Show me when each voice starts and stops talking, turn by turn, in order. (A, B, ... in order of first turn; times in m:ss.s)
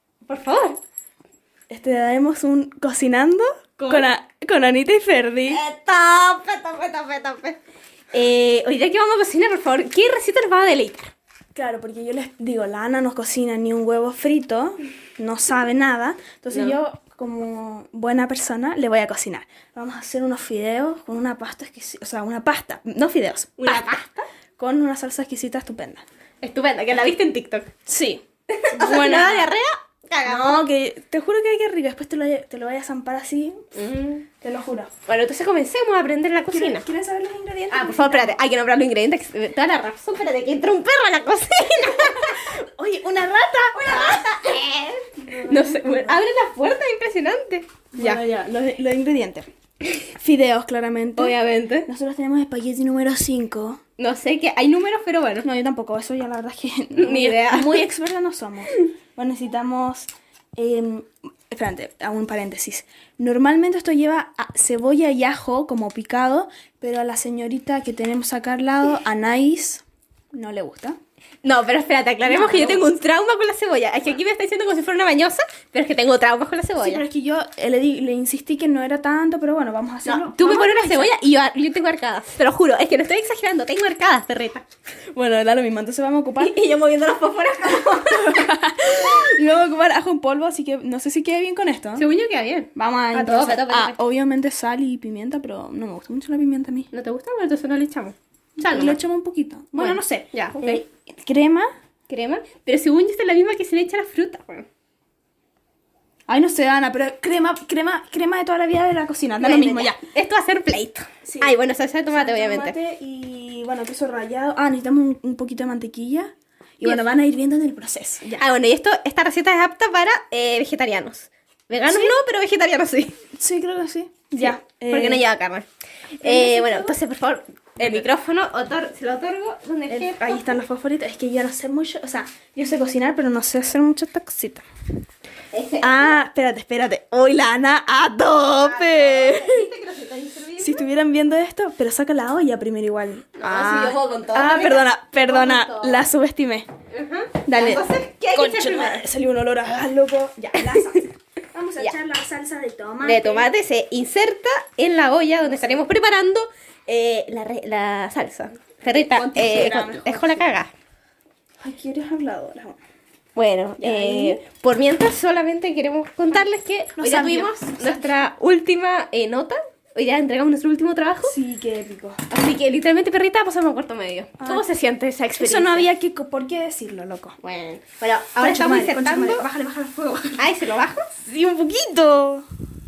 0:00.2-0:00.8 A
0:01.7-0:05.6 B
0:03.8-0:04.1 A
0:05.5-0:07.6 A
0:08.1-0:11.1 A
0:11.6-0:24.0 B
0:16.5-0:16.8 A
0:23.6-0:24.3 A
0:24.6-0:26.0 B
0:26.4-0:27.7 A
0:27.8-0:29.5 B
0:28.5-0:30.6 A
0:30.2-0:33.6 B
0:33.7-0:34.3 A
0:34.4-0:34.9 B
0:35.0-0:36.9 A
0:36.5-0:38.4 B
0:37.7-0:42.4 A
0:42.0-0:44.3 B
0:43.8-0:48.2 A
0:45.1-0:46.2 B
0:47.9-0:49.5 B
0:50.1-0:53.8 B
0:51.2-0:51.9 A
0:54.0-0:55.5 A
0:55.4-1:11.0 B
0:56.9-0:57.9 A
1:11.4-1:17.0 A
1:12.2-1:12.9 B
1:16.8-1:21.1 B
1:20.0-1:24.6 A
1:25.1-1:26.6 B
1:26.4-1:28.5 A
1:27.8-1:32.1 B
1:32.0-1:34.0 A
1:32.8-1:36.9 B
1:36.9-1:39.0 A
1:38.6-1:41.7 B
1:39.8-1:40.8 A
1:42.1-1:44.7 A
1:46.3-1:50.0 B
1:49.4-1:52.8 A
1:51.2-1:58.4 B
1:58.4-2:03.2 A
2:01.9-2:02.2 B
2:03.3-2:05.2 B
2:04.4-2:05.7 A
2:06.2-2:10.5 A
2:06.2-2:07.0 B
2:07.8-2:08.1 B
2:09.9-2:14.6 B
2:15.5-2:16.2 A
2:15.8-2:19.7 B
2:18.6-2:20.9 A
2:20.6-2:26.7 B
2:23.4-2:26.0 A
2:26.9-2:29.0 A
2:27.5-2:33.5 B
2:30.7-2:31.0 A
2:33.0-2:40.7 A
2:35.4-2:35.9 B
2:38.8-2:40.5 B
2:41.6-2:42.8 B
2:43.4-2:51.4 A
2:43.8-2:44.4 B
2:47.0-2:48.1 B
2:51.2-2:52.2 B
2:52.3-2:55.9 A
2:54.4-2:54.6 B
2:55.4-2:57.4 B
2:57.4-2:59.5 A
2:58.4-3:00.5 B
3:00.4-3:01.1 A
3:01.2-3:02.5 B